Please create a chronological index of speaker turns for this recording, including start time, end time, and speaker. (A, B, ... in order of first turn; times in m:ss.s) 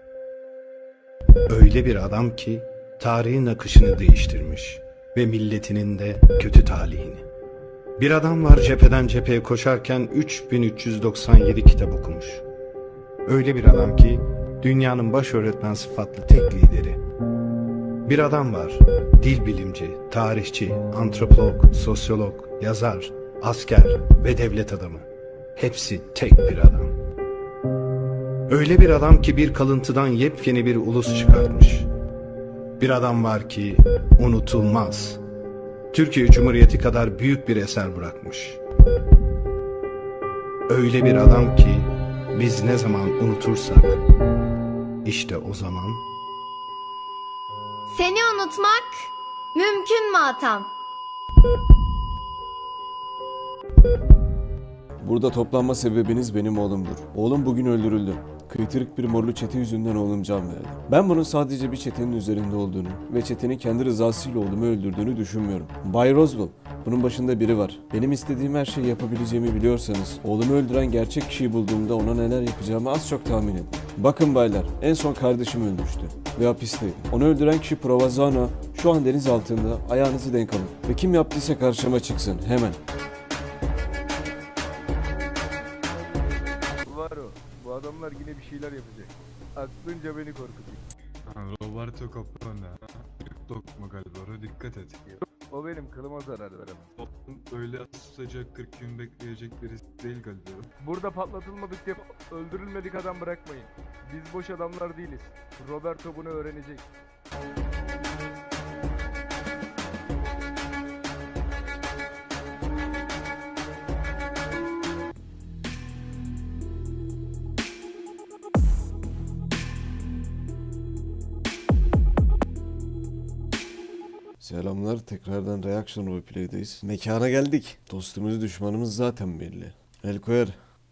0:01.5-0:07.3 A
0:08.0-0:12.4 A
0:13.3-0:17.0 A
0:18.0-0:26.9 A
0:28.5-0:31.9 A
0:32.8-0:35.2 A
0:35.9-0:38.6 A
0:40.7-0:44.0 A
0:45.0-0:46.0 A
0:47.9-0:50.7 B
0:55.0-1:22.8 C
1:26.9-1:30.8 D
1:31.3-1:35.0 E
1:35.0-1:36.9 D
1:37.3-1:40.7 E
1:40.8-1:46.9 D
2:04.4-2:10.6 C